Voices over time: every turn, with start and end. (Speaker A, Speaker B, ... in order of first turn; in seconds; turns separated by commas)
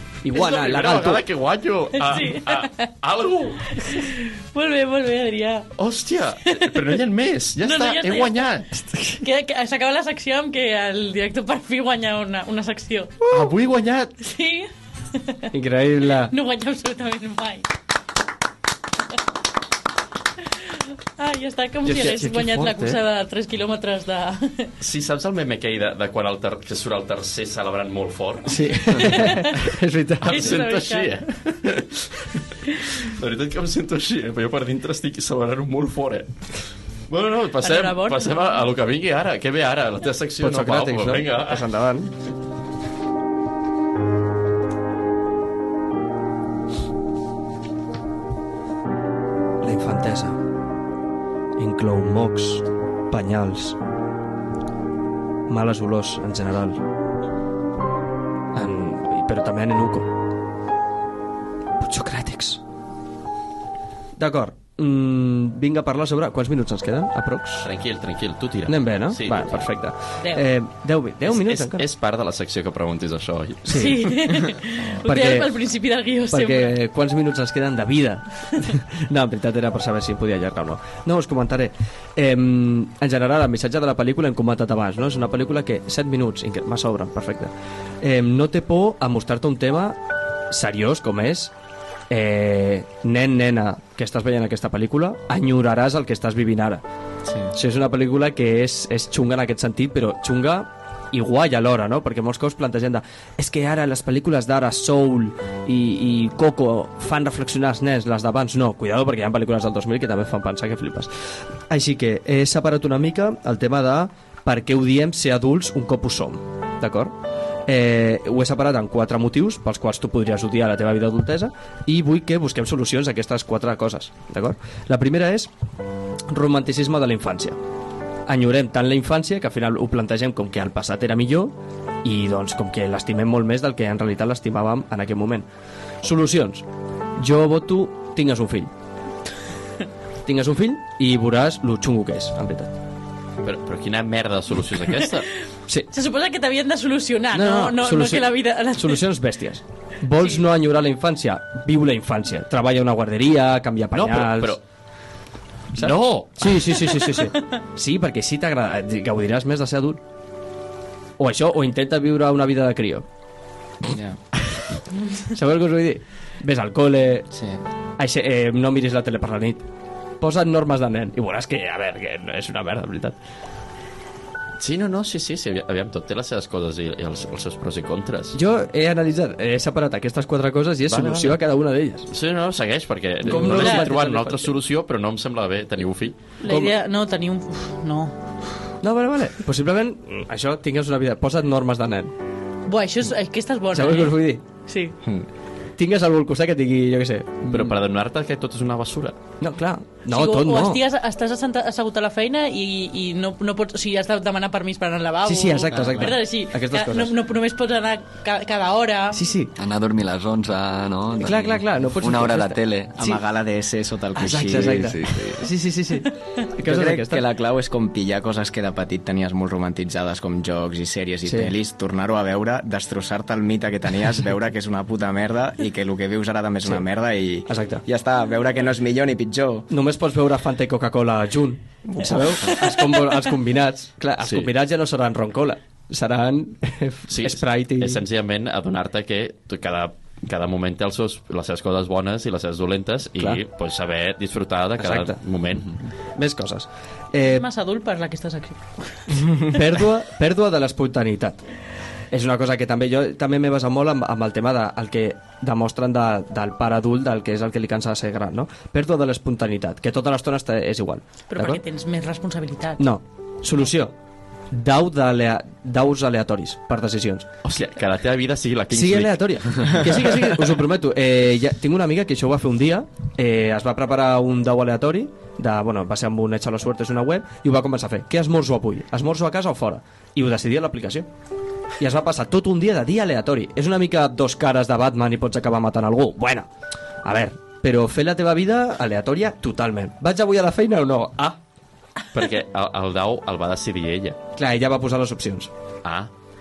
Speaker A: 0.2-1.2, Speaker B: 0.3-4.0, Speaker C: 2.0-2.9, Speaker C: 3.7-5.7, Speaker B: 5.7-8.7, Speaker C: 6.5-6.9, Speaker C: 7.6-13.3, Speaker A: 8.8-9.2, Speaker B: 13.3-14.1, Speaker C: 14.2-15.5, Speaker A: 15.5-16.3, Speaker C: 16.1-17.7, Speaker C: 20.4-24.7, Speaker A: 21.8-23.0, Speaker B: 24.8-36.3, Speaker A: 28.5-30.6, Speaker C: 28.9-29.6, Speaker C: 30.3-31.3, Speaker B: 37.1-41.6, Speaker C: 37.6-38.4, Speaker A: 40.4-42.1, Speaker A: 49.6-50.4, Speaker A: 51.6-53.8, Speaker A: 55.5-56.8, Speaker A: 58.5-60.1, Speaker A: 61.8-62.6, Speaker A: 64.2-67.7, Speaker B: 67.6-69.7, Speaker A: 68.7-71.8, Speaker C: 70.2-70.4, Speaker B: 71.3-74.0, Speaker A: 73.7-75.5, Speaker C: 73.7-76.8, Speaker A: 76.3-90.0, Speaker A: 90.5-91.5, Speaker A: 92.1-96.8, Speaker D: 97.2-97.5, Speaker A: 97.5-111.1, Speaker A: 111.7-117.1, Speaker A: 117.7-125.5, Speaker A: 126.3-127.6, Speaker A: 128.3-135.4, Speaker A: 136.0-136.6, Speaker A: 137.2-138.7, Speaker A: 140.2-142.7, Speaker B: 143.4-145.3, Speaker C: 145.9-149.0, Speaker A: 147.3-154.6, Speaker B: 153.9-154.6, Speaker B: 155.8-156.9, Speaker A: 155.8-160.0, Speaker A: 161.2-163.1, Speaker D: 163.8-164.2, Speaker A: 165.3-167.3, Speaker D: 167.3-167.6, Speaker A: 168.0-169.6, Speaker A: 170.2-173.2, Speaker B: 174.6-178.4, Speaker A: 178.3-182.1, Speaker B: 180.9-181.4, Speaker B: 182.1-186.2, Speaker A: 183.2-184.5, Speaker C: 183.3-183.8, Speaker C: 186.4-188.2, Speaker A: 186.4-186.7, Speaker A: 188.8-192.1, Speaker C: 192.7-194.9, Speaker A: 193.7-194.4, Speaker A: 195.8-197.7, Speaker B: 197.5-199.2, Speaker A: 199.4-200.8, Speaker C: 200.1-209.2, Speaker A: 205.2-207.1, Speaker D: 205.7-206.2, Speaker A: 209.1-209.5, Speaker E: 209.6-213.2, Speaker A: 211.2-212.6, Speaker D: 213.0-215.0, Speaker A: 214.2-217.2, Speaker E: 214.3-215.5, Speaker D: 216.6-229.7, Speaker A: 221.2-221.5, Speaker A: 227.5-227.8, Speaker A: 229.7-238.0, Speaker D: 231.8-232.6, Speaker B: 234.2-234.5, Speaker B: 237.1-245.8, Speaker A: 244.8-245.2, Speaker A: 246.2-247.4, Speaker C: 247.2-249.3, Speaker A: 249.2-251.4, Speaker A: 252.1-261.6, Speaker C: 261.3-262.8, Speaker A: 262.8-263.9, Speaker A: 264.5-267.3, Speaker B: 267.4-269.7, Speaker A: 268.7-281.1, Speaker A: 281.8-286.5, Speaker A: 287.0-291.4, Speaker B: 292.1-294.2, Speaker A: 294.4-295.5, Speaker B: 295.8-296.1